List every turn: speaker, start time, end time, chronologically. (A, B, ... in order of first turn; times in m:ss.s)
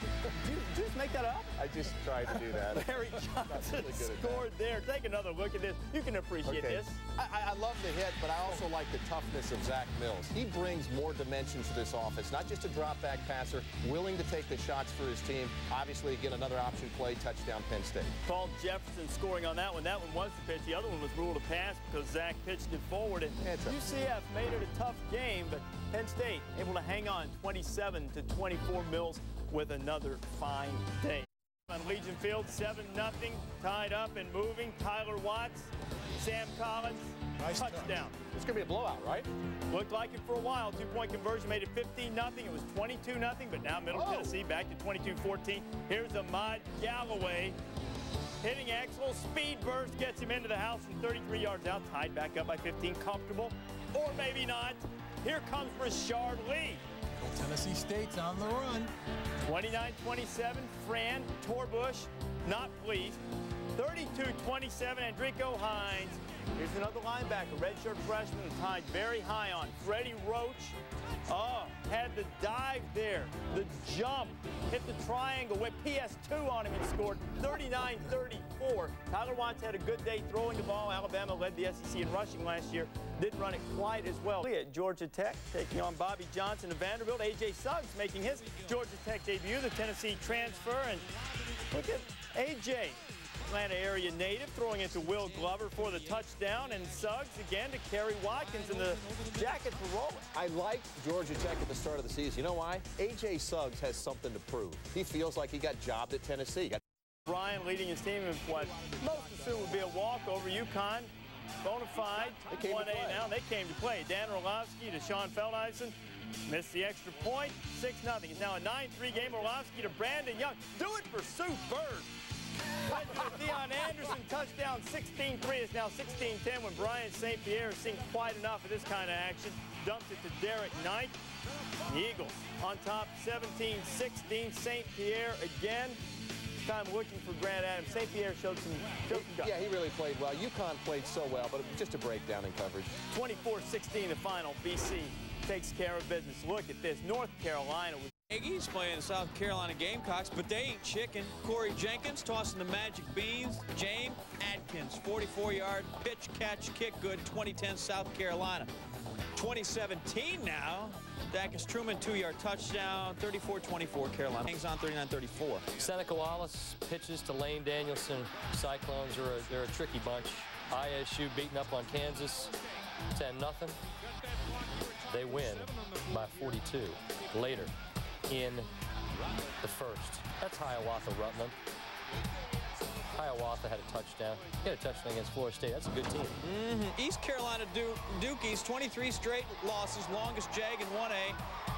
0:00.3-0:01.6 A
0:01.6-0:04.5 B
0:02.6-0:07.0 A
0:06.4-0:18.2 B
0:18.2-0:38.2 A
0:23.4-0:23.8 B
0:37.4-0:38.0 C
0:38.2-0:39.3 B
0:39.7-0:47.6 A
0:43.9-0:44.3 B
0:48.4-0:56.8 A
0:57.2-0:58.9 C
0:59.4-1:03.2 A
1:03.7-1:31.1 A
1:31.7-1:40.3 A
1:40.3-1:46.8 B
1:47.2-2:02.1 A
1:52.4-1:53.2 B
2:02.8-2:11.2 A
2:11.8-2:16.0 A
2:16.6-2:19.5 A
2:19.1-2:22.9 B
2:23.1-2:28.1 A
2:28.3-2:38.7 D
2:39.3-2:45.7 D
2:45.7-2:52.6 E
2:53.1-2:53.8 E
2:55.1-2:57.7 E
2:58.3-2:58.7 E
2:59.6-3:01.5 E
3:03.1-3:06.4 E
3:06.4-3:11.4 D